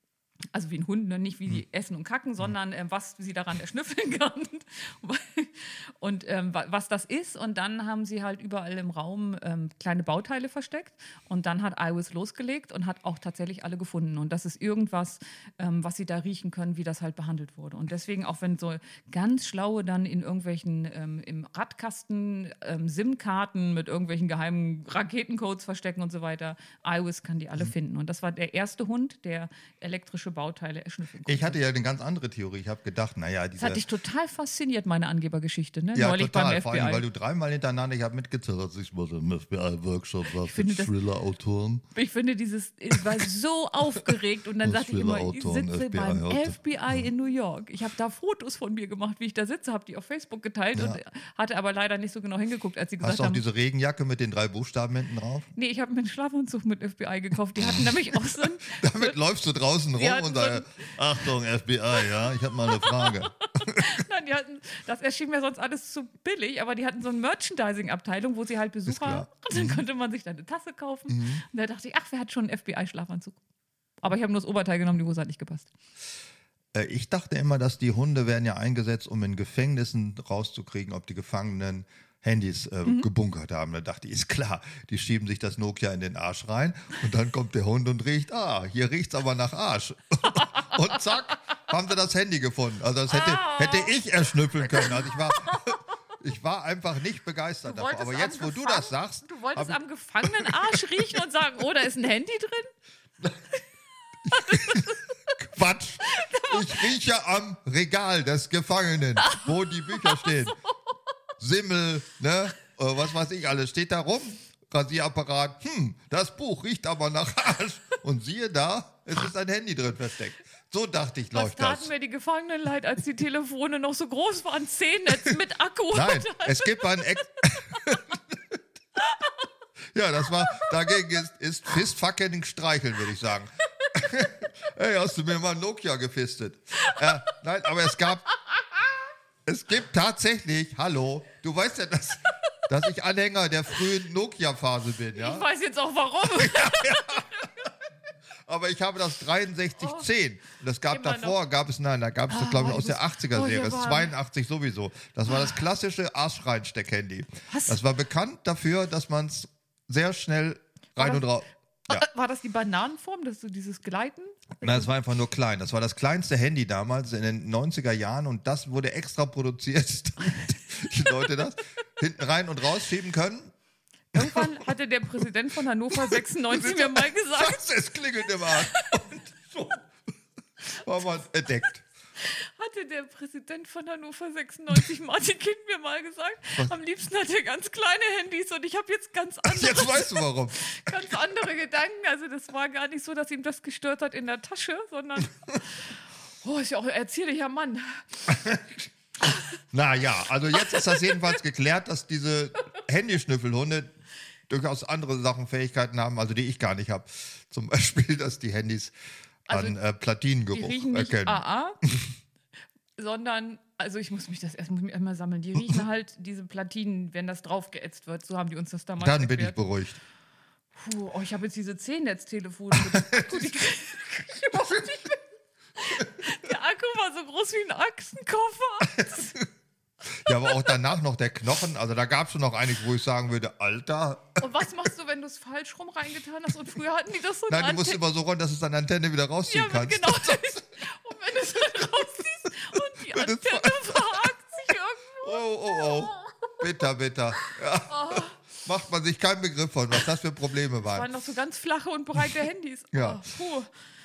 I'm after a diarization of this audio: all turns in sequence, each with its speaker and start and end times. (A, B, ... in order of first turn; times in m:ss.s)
0:00.5-0:31.6 A
0:31.3-0:33.8 B
0:33.6-0:37.0 A
0:36.0-0:41.8 B
0:40.3-0:40.9 A
0:42.0-0:53.4 A
0:44.6-0:47.0 B
0:53.0-0:55.5 B
0:55.6-0:59.2 A
0:58.7-1:04.0 B
1:00.0-1:01.0 A
1:02.0-1:13.4 A
1:08.9-1:09.8 B
1:11.1-1:11.4 B
1:14.0-1:15.7 A
1:16.7-1:40.8 B
1:30.5-1:30.8 A
1:33.1-1:34.0 A
1:34.6-1:35.8 A
1:37.7-1:42.7 A
1:44.3-1:50.6 B
1:44.3-1:45.0 A
1:46.1-1:46.8 A
1:49.2-1:50.4 A
1:51.4-2:01.9 B
2:01.3-2:06.9 A
2:05.9-2:08.4 B
2:09.0-2:09.4 A
2:09.9-2:18.3 B
2:10.4-2:10.7 A
2:19.5-2:25.5 B
2:25.1-2:27.7 A
2:26.3-2:27.5 B
2:28.4-2:42.0 B
2:30.9-2:31.4 A
2:32.3-2:34.1 A
2:37.5-2:37.8 A
2:41.0-2:41.2 A
2:41.9-2:44.9 A
2:44.6-2:53.5 B
2:54.1-2:57.6 A
2:54.2-2:54.6 B
2:55.9-2:59.9 B
2:58.5-2:59.0 A
3:00.7-3:01.8 B
3:02.2-3:18.6 A
3:09.4-3:11.1 B
3:18.3-3:18.6 B
3:19.7-3:23.9 B
3:20.5-3:21.1 A
3:24.5-3:28.9 B
3:29.5-3:29.8 A
3:29.5-3:32.1 B
3:30.5-3:31.8 A
3:33.0-3:39.6 A
3:39.0-3:40.0 B
3:40.8-3:45.2 A
3:42.9-3:43.4 B
3:45.8-3:49.4 A
3:50.1-3:54.4 B
3:50.3-3:50.7 A
3:54.4-3:58.0 A
3:57.5-4:00.5 B
3:59.5-4:06.6 A
4:03.1-4:04.3 B
4:05.2-4:11.1 B
4:07.9-4:08.4 A
4:10.8-4:13.7 A
4:12.9-4:13.3 B